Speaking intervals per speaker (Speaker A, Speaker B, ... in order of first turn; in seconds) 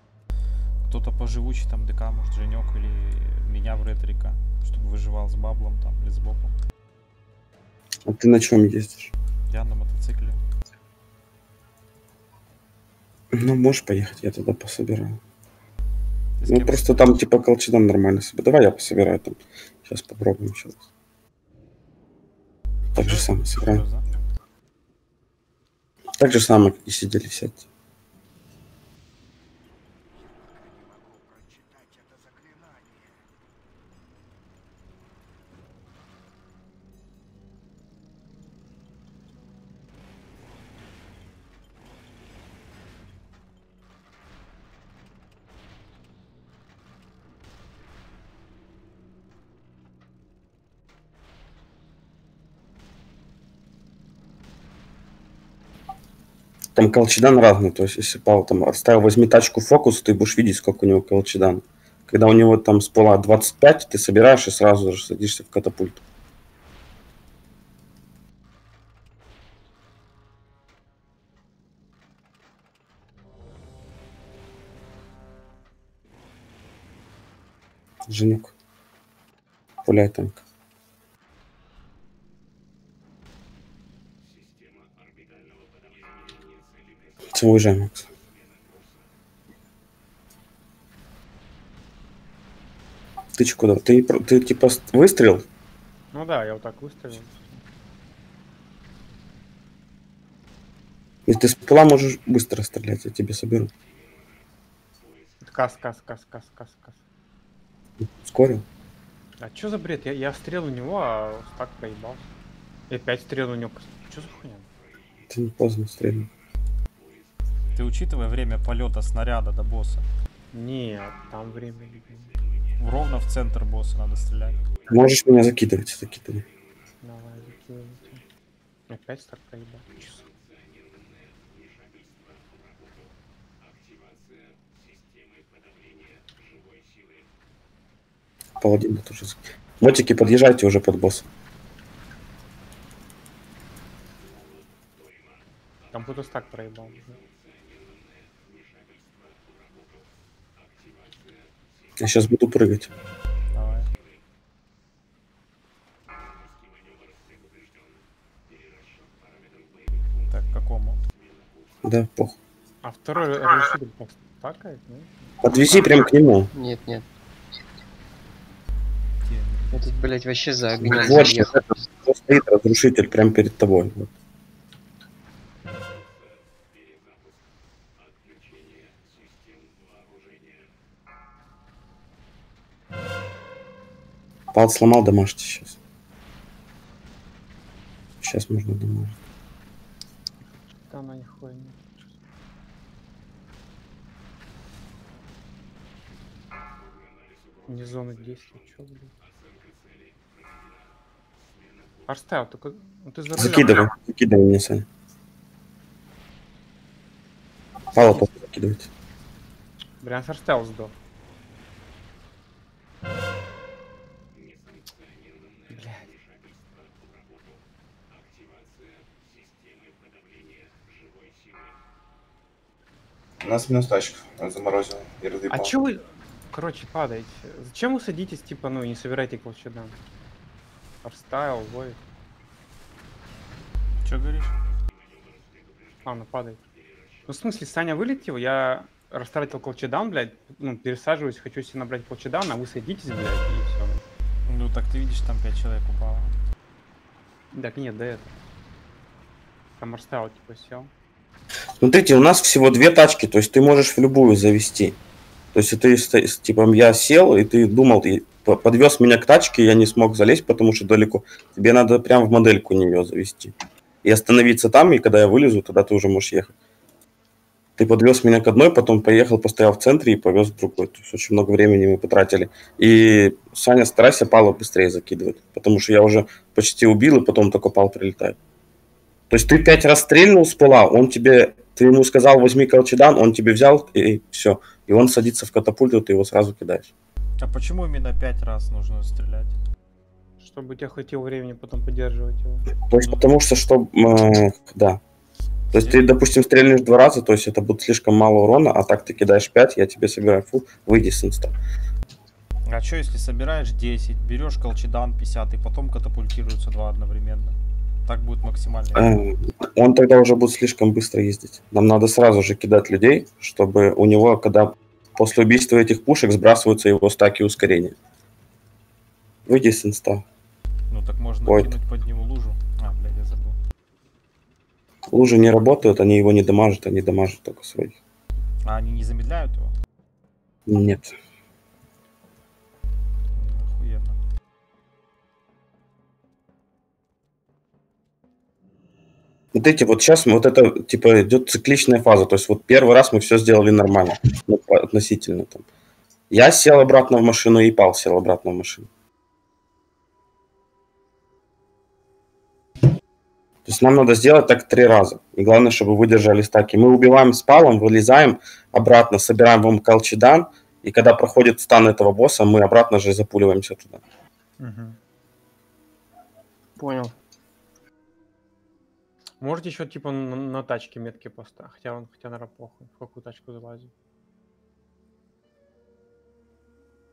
Speaker A: 0.8-6.5, 9.5-10.4, 16.4-17.2, 22.9-24.1, 117.7-120.1, 122.8-124.6, 153.5-153.9, 160.3-161.0, 169.2-170.0, 234.0-234.5, 244.5-246.3, 287.4-289.6, 295.7-296.2, 302.7-309.2, 320.9-323.6, 328.6-329.7, 333.4-334.2
Speaker B: 8.1-9.1, 13.3-15.2, 16.5-20.8, 22.9-23.8, 26.2-27.6, 56.8-66.0, 78.1-78.5, 79.8-80.4, 87.3-88.1, 93.4-95.4, 101.3-103.7, 108.2-108.7, 115.3-116.3, 124.9-126.5, 138.6-141.3, 152.0-152.9, 161.8-162.4, 165.4-166.5, 170.8-174.1, 184.5-185.8, 188.2-189.2, 203.4-204.9, 207.9-208.9, 251.8-255.0, 255.5-266.6, 267.8-278.4, 279.3-286.9, 292.9-295.0, 295.7-301.5, 308.9-317.9, 319.5-320.2, 321.4-321.8, 325.1-328.0, 330.7-331.1, 339.5-345.6, 346.3-348.9, 353.7-364.0
Speaker C: 96.1-97.6, 105.4-107.0, 109.4-112.3, 112.9-114.7, 120.5-122.3, 127.0-128.2, 128.9-130.3, 145.9-147.2, 162.8-165.3, 190.9-192.1, 197.7-199.1, 202.1-203.9, 207.9-208.3, 210.0-210.9, 215.7-216.1, 225.5-230.0, 231.0-232.0, 236.1-236.6, 237.3-244.0, 247.5-248.4, 249.8-250.9, 290.4-292.7, 364.6-365.0, 369.4-373.9
Speaker D: 166.5-167.1, 169.7-171.7, 366.8-367.1
Speaker E: 223.4-225.7